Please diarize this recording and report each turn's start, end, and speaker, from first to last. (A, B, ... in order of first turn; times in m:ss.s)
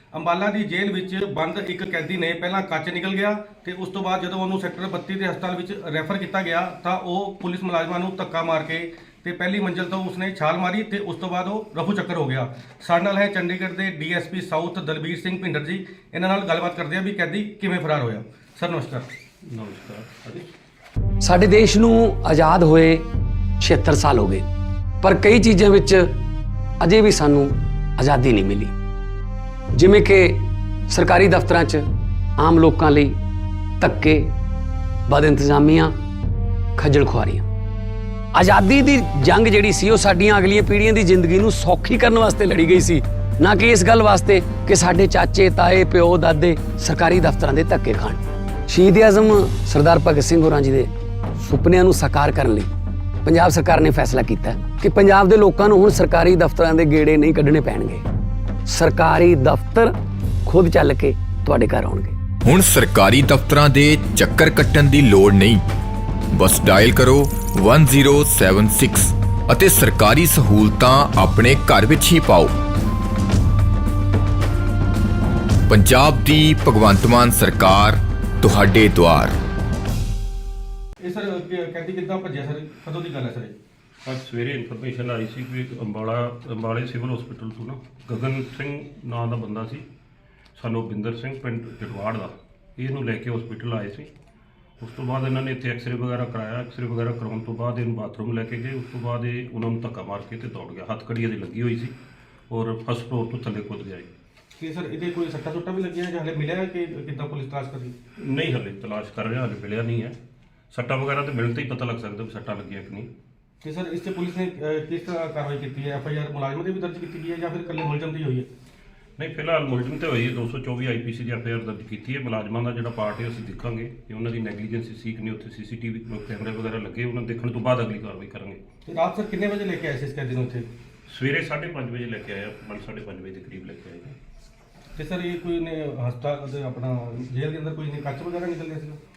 0:00.1-0:19.1 A
0:19.4-0:20.5 B
0:21.2-0:23.1 C
0:23.6-0:24.5 C
0:25.0-0:26.2 C
0:26.8-0:28.7 C
0:29.7-0:31.8 C
0:32.4-0:33.2 C
0:33.8-0:34.3 C
0:35.1-0:36.0 C
0:36.8-0:37.5 C
0:38.3-0:52.7 C
0:53.2-0:58.0 C
0:58.6-1:02.2 C
1:02.4-1:05.6 D
1:06.3-1:12.5 D
1:15.7-1:19.4 D
1:21.0-1:23.6 A
1:24.0-1:29.8 B
1:30.6-1:34.1 B
1:34.8-1:41.9 B
1:42.5-1:44.1 B
1:44.6-1:47.9 A
1:48.2-1:50.2 B
1:50.7-1:53.1 B
1:53.6-1:58.5 A
1:59.2-2:08.6 B
2:08.9-2:10.7 A
2:11.1-2:14.2 B
2:15.0-2:19.0 A